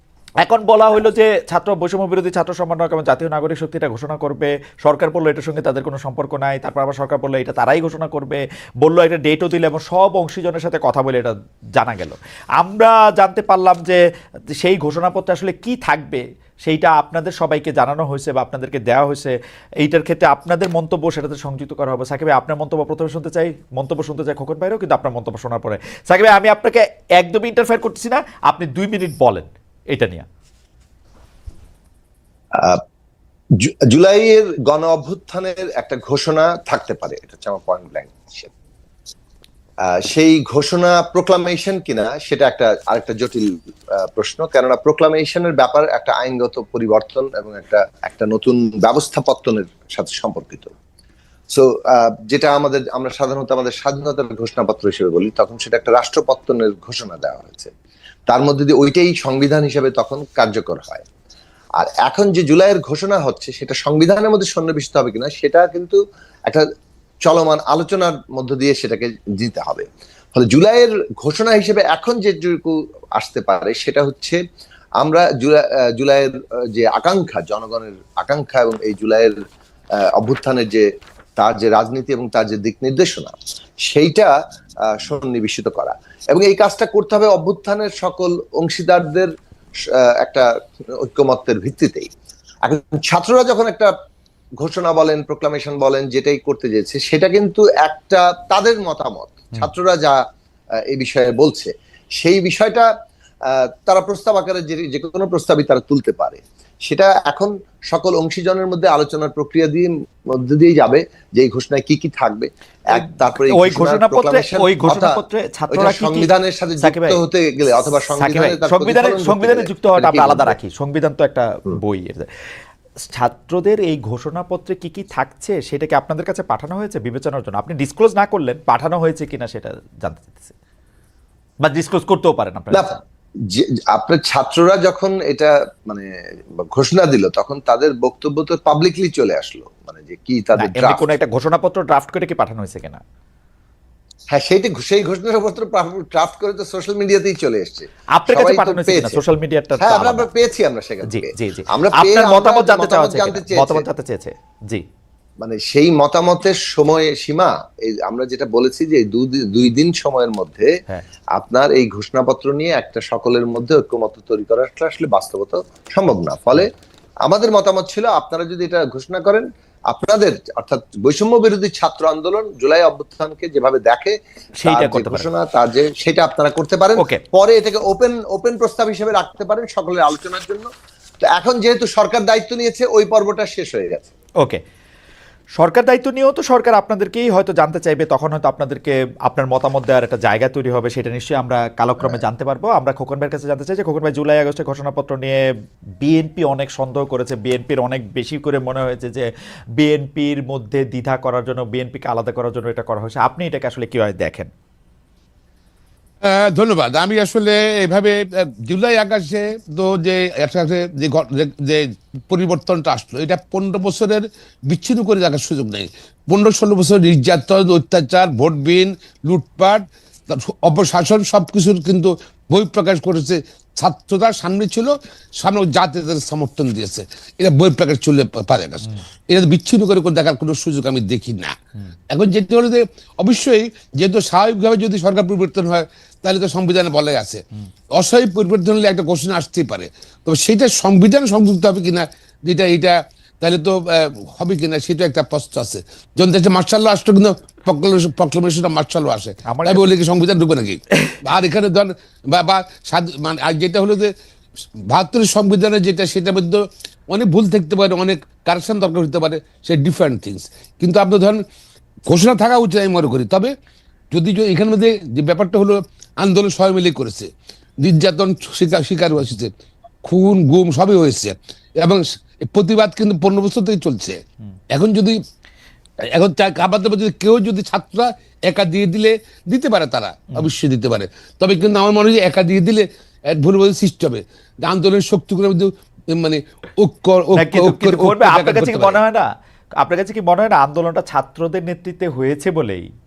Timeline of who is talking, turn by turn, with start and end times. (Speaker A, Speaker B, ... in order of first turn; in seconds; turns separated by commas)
Speaker A: 0.4-14.0, Speaker A: 14.6-30.3, Speaker B: 33.6-38.5, Speaker B: 39.8-50.7, Speaker B: 51.5-57.7, Speaker B: 58.3-61.0, Speaker B: 61.8-66.7, Speaker B: 67.2-74.4, Speaker B: 75.0-79.4, Speaker B: 80.2-83.3, Speaker B: 83.8-84.3, Speaker B: 84.9-89.3, Speaker B: 89.9-92.1, Speaker B: 92.7-93.9, Speaker B: 94.6-100.2, Speaker B: 100.9-102.9, Speaker B: 103.5-115.2, Speaker A: 112.9-116.3, Speaker B: 115.7-120.5, Speaker A: 116.8-117.2, Speaker A: 118.2-122.3, Speaker A: 123.1-130.6, Speaker A: 131.6-133.0, Speaker B: 133.5-136.1, Speaker B: 136.6-141.1, Speaker A: 140.6-143.0, Speaker B: 144.3-149.2, Speaker A: 148.2-150.3, Speaker B: 149.8-153.8, Speaker A: 151.1-154.8, Speaker B: 155.4-160.7, Speaker B: 161.3-166.7, Speaker B: 167.3-180.7, Speaker A: 174.6-175.3, Speaker B: 181.2-184.1, Speaker A: 185.6-195.4, Speaker A: 196.0-204.5, Speaker C: 206.2-231.6, Speaker C: 232.1-237.4, Speaker C: 237.9-254.1, Speaker A: 249.5-249.9, Speaker C: 254.8-261.4, Speaker C: 262.1-263.5, Speaker C: 264.1-267.3, Speaker C: 267.8-269.5, Speaker C: 270.0-274.2, Speaker C: 274.7-275.2, Speaker C: 276.1-289.0, Speaker A: 287.4-292.9